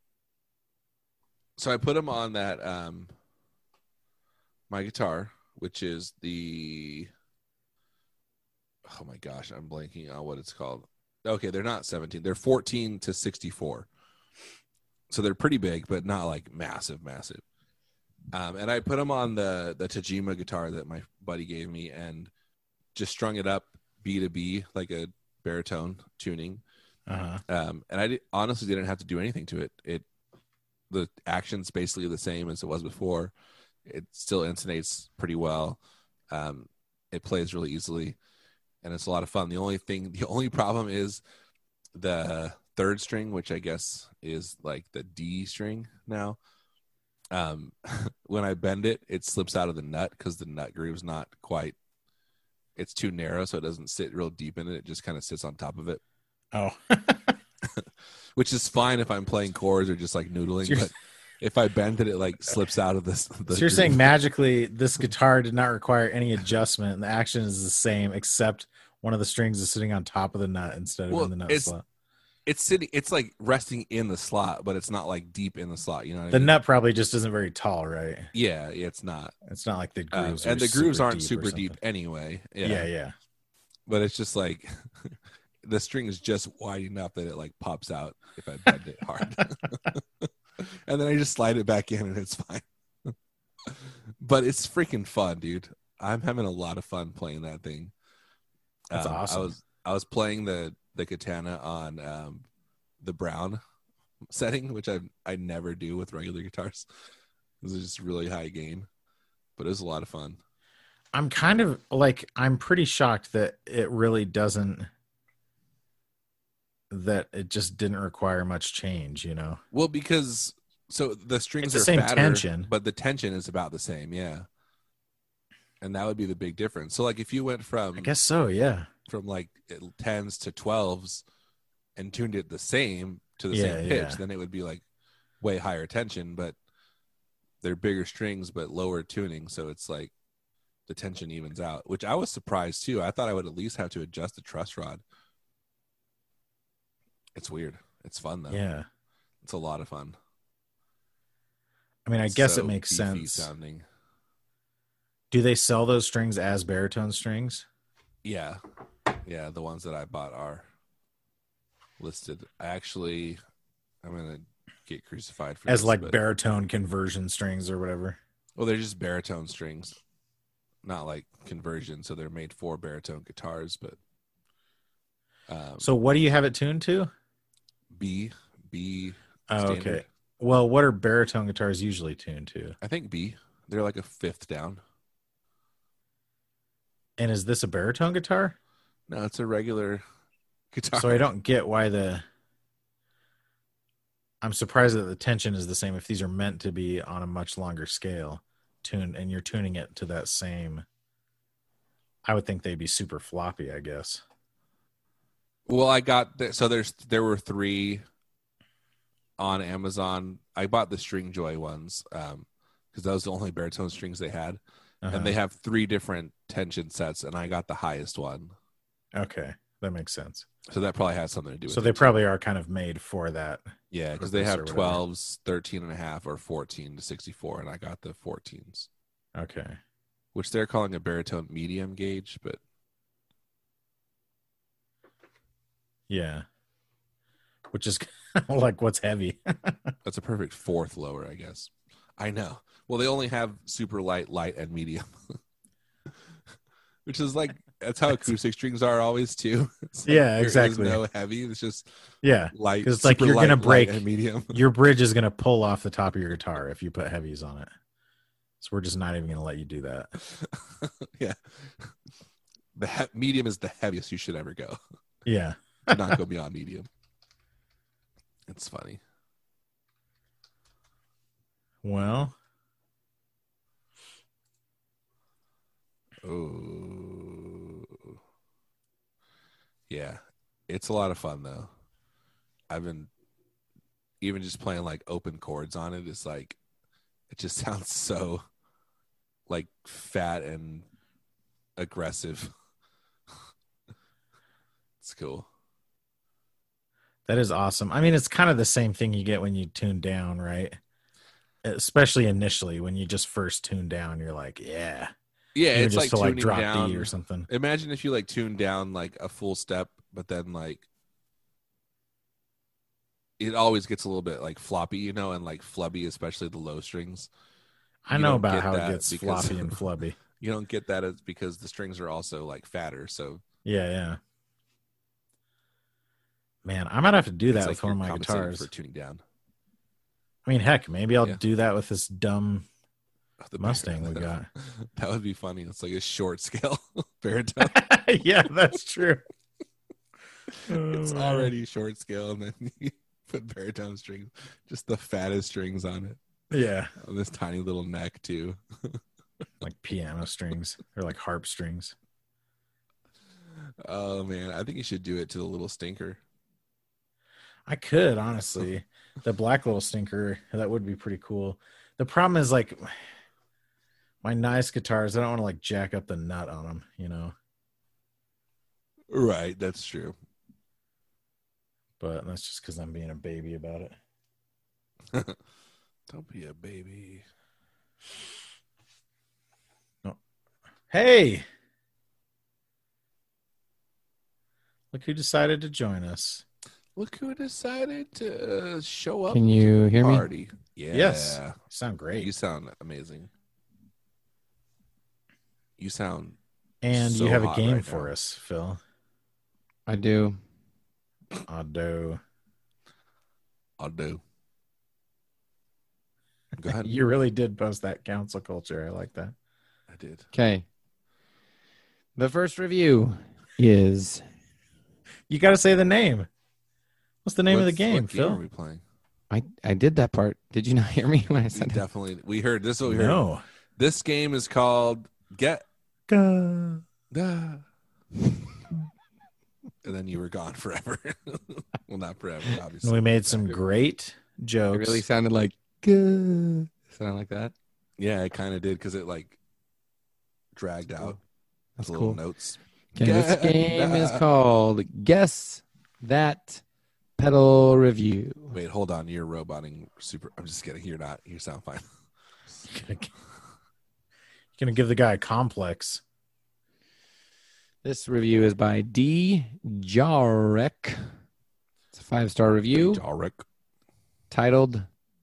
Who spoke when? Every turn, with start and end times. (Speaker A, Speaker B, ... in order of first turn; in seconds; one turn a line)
Speaker A: 1.6-3.1
Speaker A: 4.7-7.1
Speaker A: 8.9-13.9
Speaker A: 15.1-17.4
Speaker A: 18.3-22.3
Speaker A: 22.9-26.6
Speaker B: 27.1-27.4
Speaker A: 27.5-30.1
Speaker A: 30.9-33.3
Speaker A: 33.9-35.8
Speaker A: 36.3-38.2
Speaker A: 38.8-41.2
Speaker A: 42.0-46.4
Speaker A: 47.3-51.8
Speaker A: 52.8-56.0
Speaker B: 56.5-57.4
Speaker A: 57.7-64.1
Speaker B: 63.5-71.8
Speaker A: 71.1-71.7
Speaker A: 72.5-76.6
Speaker B: 76.3-78.3
Speaker A: 78.3-79.3
Speaker B: 79.5-81.8
Speaker A: 80.1-82.9
Speaker B: 82.6-83.1
Speaker A: 83.9-93.1
Speaker A: 93.7-97.9
Speaker A: 98.9-102.4
Speaker B: 98.9-99.5
Speaker A: 103.0-103.6
Speaker A: 104.3-106.9
Speaker A: 107.6-108.9
Speaker A: 109.6-110.4
Speaker B: 111.1-114.9
Speaker B: 116.9-119.6
Speaker A: 119.7-124.5
Speaker B: 121.6-122.7
Speaker A: 125.8-128.1
Speaker B: 128.0-128.9
Speaker A: 129.1-131.2
Speaker A: 132.0-134.8
Speaker B: 133.5-134.2
Speaker A: 135.4-136.6
Speaker A: 137.6-140.1
Speaker A: 140.9-145.0
Speaker A: 147.3-148.6
Speaker B: 148.5-148.9
Speaker A: 149.4-150.2
Speaker B: 152.1-153.5
Speaker A: 152.3-153.8
Speaker B: 155.3-157.7
Speaker A: 158.2-158.6
Speaker A: 159.2-160.7
Speaker A: 162.0-163.4
Speaker A: 164.0-166.2
Speaker B: 165.7-168.2
Speaker A: 168.6-170.0
Speaker A: 170.8-174.0
Speaker A: 175.5-175.9
Speaker B: 175.8-177.1
Speaker A: 177.9-180.1
Speaker B: 179.5-182.8
Speaker A: 182.8-184.8
Speaker B: 187.2-188.6
Speaker A: 189.1-190.0
Speaker A: 190.7-191.3
Speaker B: 191.0-192.2
Speaker B: 194.4-200.8
Speaker B: 202.2-204.2
Speaker A: 205.7-208.0
Speaker A: 209.4-214.6
Speaker B: 215.0-215.4
Speaker A: 215.1-218.5
Speaker B: 219.1-220.5
Speaker A: 220.7-222.1
Speaker B: 221.7-225.0
Speaker A: 223.9-228.9
Speaker B: 229.4-229.8
Speaker A: 230.3-232.6
Speaker B: 236.1-236.4
Speaker B: 237.7-239.9
Speaker A: 240.1-245.1
Speaker A: 247.1-251.9
Speaker B: 250.1-251.0
Speaker B: 252.2-257.7
Speaker A: 252.5-254.6
Speaker B: 258.6-260.1
Speaker A: 260.2-261.9
Speaker A: 262.8-264.8
Speaker B: 265.2-266.2
Speaker A: 265.9-266.9
Speaker A: 268.5-269.0
Speaker B: 271.8-272.4
Speaker A: 276.2-278.1
Speaker A: 279.9-281.7
Speaker A: 282.7-283.1
Speaker A: 284.2-286.6
Speaker A: 287.3-288.4
Speaker A: 289.5-290.9
Speaker A: 291.8-292.5
Speaker A: 295.0-295.5
Speaker B: 297.3-300.8
Speaker B: 301.6-305.1
Speaker A: 305.6-310.9
Speaker B: 305.7-307.5
Speaker A: 313.4-317.3
Speaker B: 318.1-320.2
Speaker A: 318.1-319.8
Speaker A: 320.4-323.4
Speaker B: 323.6-324.2
Speaker B: 326.6-328.7
Speaker A: 327.5-329.2
Speaker B: 330.4-332.7
Speaker A: 333.4-337.8
Speaker B: 333.6-334.5
Speaker B: 337.6-339.2
Speaker A: 340.5-346.2
Speaker B: 340.7-341.5
Speaker B: 346.5-346.9
Speaker A: 347.0-349.0
Speaker B: 349.6-351.9
Speaker A: 353.8-356.2
Speaker B: 357.7-362.9
Speaker B: 364.2-367.4
Speaker A: 369.1-370.2
Speaker B: 372.0-374.0
Speaker A: 376.1-377.2
Speaker B: 380.9-381.5
Speaker B: 384.9-386.4
Speaker A: 387.0-389.5
Speaker C: 389.3-390.3
Speaker A: 390.0-391.6
Speaker B: 390.9-392.3
Speaker A: 392.2-393.3
Speaker A: 395.8-396.4
Speaker B: 396.8-398.8
Speaker A: 396.9-398.1
Speaker C: 399.9-400.4
Speaker B: 401.5-402.2
Speaker A: 403.8-404.2
Speaker A: 406.6-406.9
Speaker B: 406.8-409.4
Speaker A: 409.9-410.3
Speaker C: 410.3-410.6
Speaker C: 412.2-414.2
Speaker B: 415.3-416.3
Speaker B: 417.2-418.4
Speaker A: 417.5-418.8
Speaker C: 419.3-421.8
Speaker A: 421.5-423.2
Speaker B: 422.9-423.4
Speaker A: 423.8-425.6
Speaker B: 426.1-426.8
Speaker A: 427.1-427.6
Speaker A: 429.8-433.5
Speaker B: 432.8-435.1
Speaker C: 434.7-437.5
Speaker A: 438.0-439.4
Speaker A: 440.6-441.2
Speaker C: 441.8-442.2
Speaker A: 441.8-444.2
Speaker C: 442.9-446.6
Speaker C: 447.2-448.6
Speaker A: 448.5-451.9
Speaker B: 452.7-453.1
Speaker B: 454.6-456.0
Speaker C: 457.8-461.1
Speaker C: 461.9-463.0
Speaker A: 462.7-463.4
Speaker C: 464.3-464.9